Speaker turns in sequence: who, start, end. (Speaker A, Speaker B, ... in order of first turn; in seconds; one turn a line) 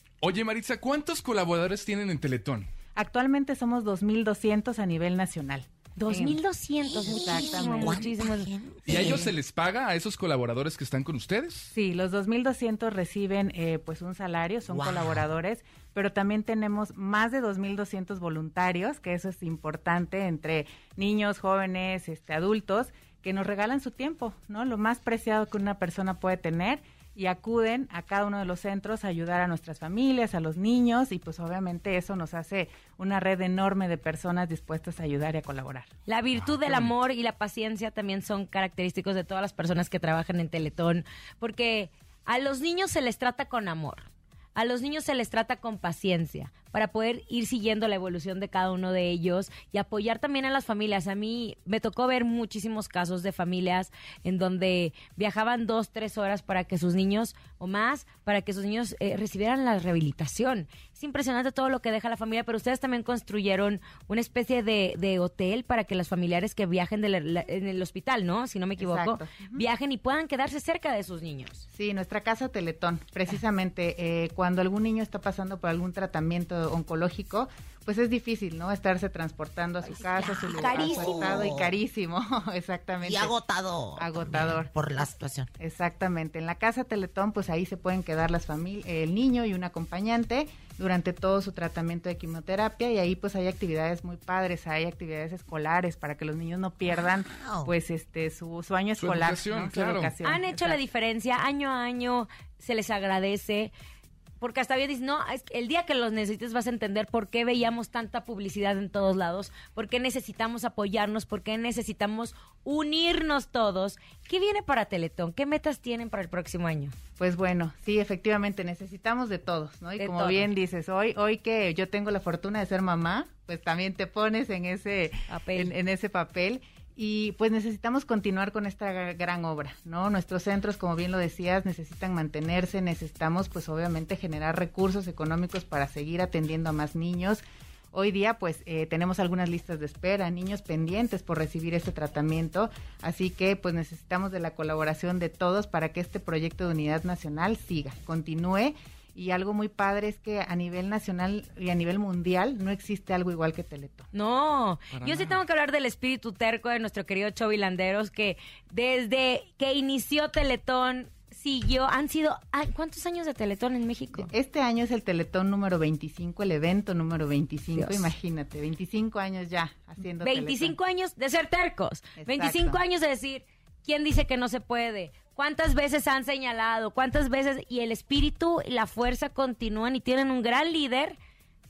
Speaker A: 0.2-2.7
Speaker B: 2.9-6.4
Speaker C: 6.0-9.1
Speaker D: 6.9-9.3
Speaker B: 7.0-8.0
Speaker A: 8.9-11.7
Speaker B: 11.7-35.9
Speaker D: 14.7-15.2
Speaker C: 36.1-71.6
Speaker B: 68.8-69.6
Speaker B: 71.7-83.3
Speaker C: 79.9-81.4
Speaker D: 80.1-81.7
Speaker D: 83.0-85.5
Speaker B: 84.0-84.7
Speaker B: 85.6-100.8
Speaker D: 96.9-97.7
Speaker A: 99.0-100.1
Speaker C: 100.2-103.7
Speaker C: 104.4-116.9
Speaker B: 117.2-154.1
Speaker C: 120.0-120.5
Speaker C: 125.3-125.7
Speaker C: 154.1-164.3
Speaker B: 155.0-155.4
Speaker B: 164.2-170.7
Speaker C: 167.8-168.1
Speaker C: 170.2-181.2
Speaker B: 172.2-172.8